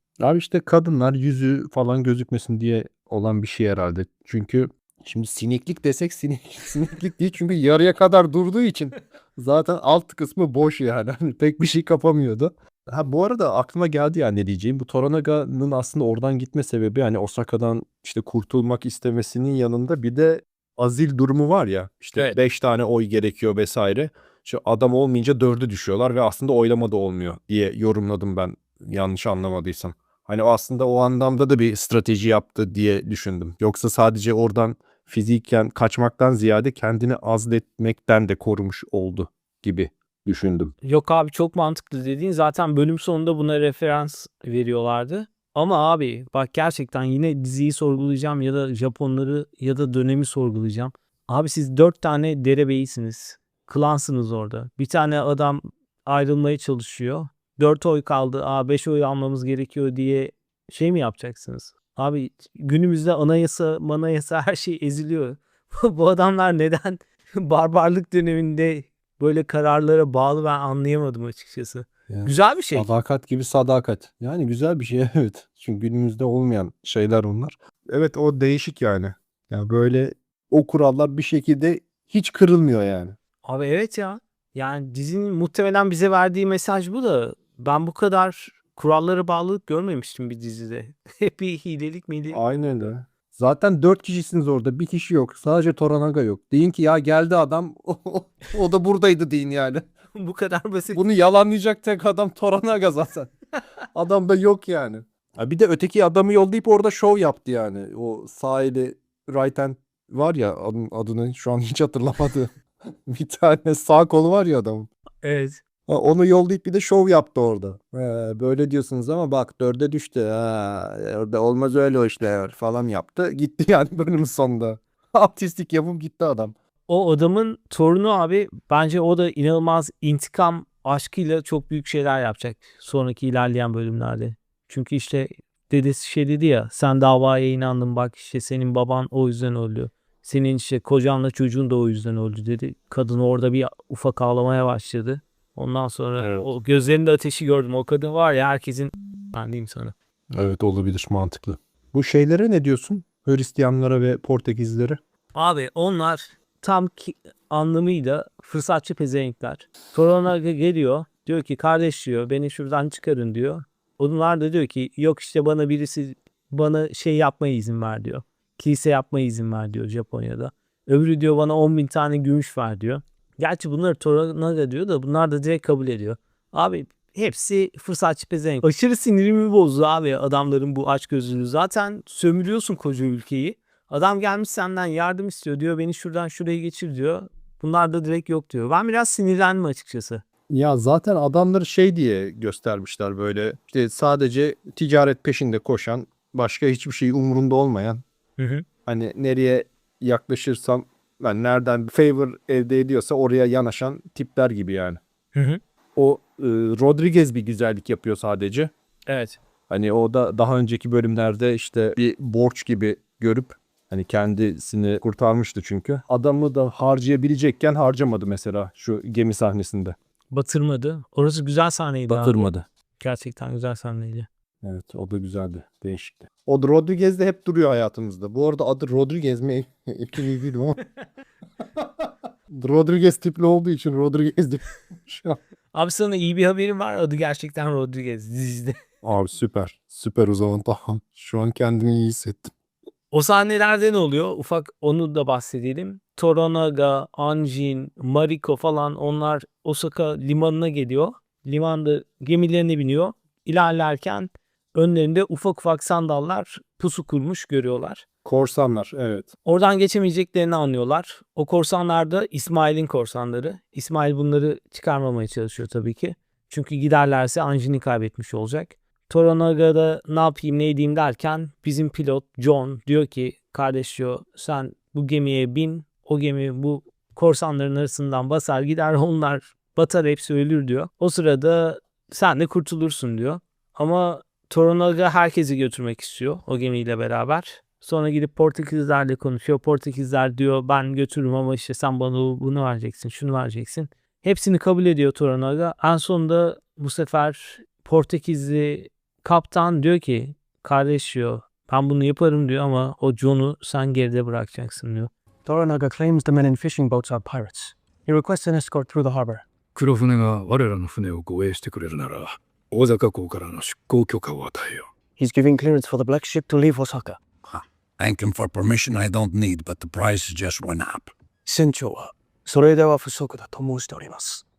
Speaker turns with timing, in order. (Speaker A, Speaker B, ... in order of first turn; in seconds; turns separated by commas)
Speaker A: 0.2-40.7, Speaker B: 40.8-72.9, Speaker A: 72.1-83.2, Speaker B: 83.4-92.4, Speaker A: 92.3-99.9, Speaker B: 100.1-101.0, Speaker A: 100.9-103.3, Speaker A: 103.9-112.5, Speaker A: 113.1-114.9, Speaker B: 115.2-115.6, Speaker A: 115.9-126.5, Speaker B: 126.9-149.9, Speaker A: 146.2-146.5, Speaker A: 150.3-155.0, Speaker B: 155.3-190.2, Speaker A: 190.5-198.0, Speaker B: 198.4-198.7, Speaker A: 198.9-205.0, Speaker B: 205.3-205.6, Speaker A: 206.0-208.7, Speaker B: 209.1-209.4, Speaker A: 209.7-220.0, Speaker B: 220.3-222.5, Speaker A: 222.1-222.7, Speaker B: 223.0-224.3, Speaker A: 224.6-230.8, Speaker A: 231.6-235.4, Speaker B: 235.7-238.8, Speaker A: 239.0-242.5, Speaker B: 243.1-258.1, Speaker A: 258.2-259.3, Speaker B: 259.4-305.1, Speaker C: 305.4-309.4, Speaker D: 309.8-314.9, Speaker C: 315.2-317.2, Speaker E: 317.4-321.1, Speaker C: 321.4-324.4